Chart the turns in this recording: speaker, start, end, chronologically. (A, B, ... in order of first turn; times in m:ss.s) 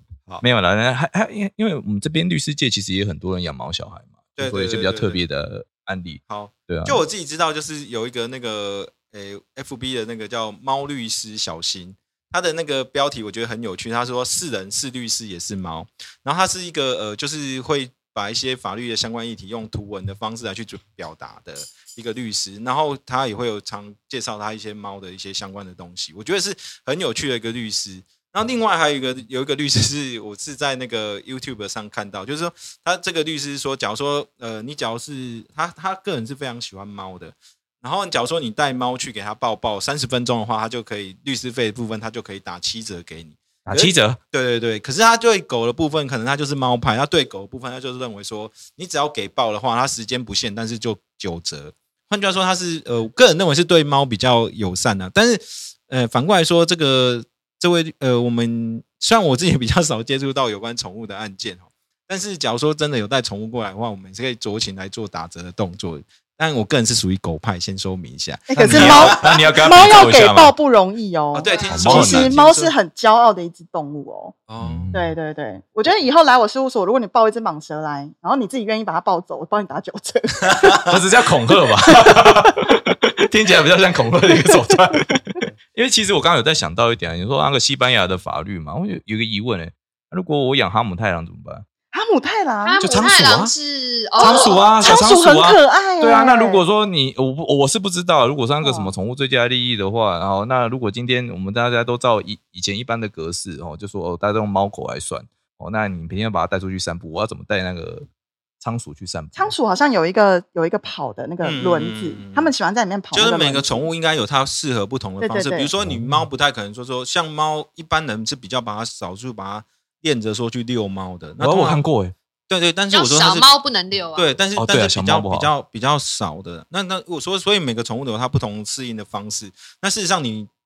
0:00.4-0:07.0 A
0:04.4-0:05.2 B
0:06.3-1:09.6 B
0:43.7-0:44.2 A
1:08.5-1:14.4 C
1:08.6-1:10.5 A
1:11.3-1:12.7 B
1:11.7-1:12.4 A
1:14.5-1:15.0 B
1:14.6-1:15.1 A
1:14.9-1:21.0 C
1:20.4-1:21.0 B
1:20.9-1:31.6 A
1:21.9-1:22.2 C
1:24.4-1:24.8 C
1:31.9-1:32.8 C
1:32.6-1:34.6 D
1:32.8-1:33.5 A
1:34.2-1:48.1 A
1:34.2-1:36.6 C
1:38.6-1:38.9 C
1:48.6-1:49.5 A
1:49.4-1:53.8 C
1:51.4-1:52.5 B
1:53.1-2:01.8 B
1:55.2-1:55.7 C
1:55.8-1:56.3 A
2:01.4-2:02.1 A
2:02.5-2:03.5 B
2:02.9-2:04.3 D
2:04.2-2:10.5 B
2:04.6-2:05.5 A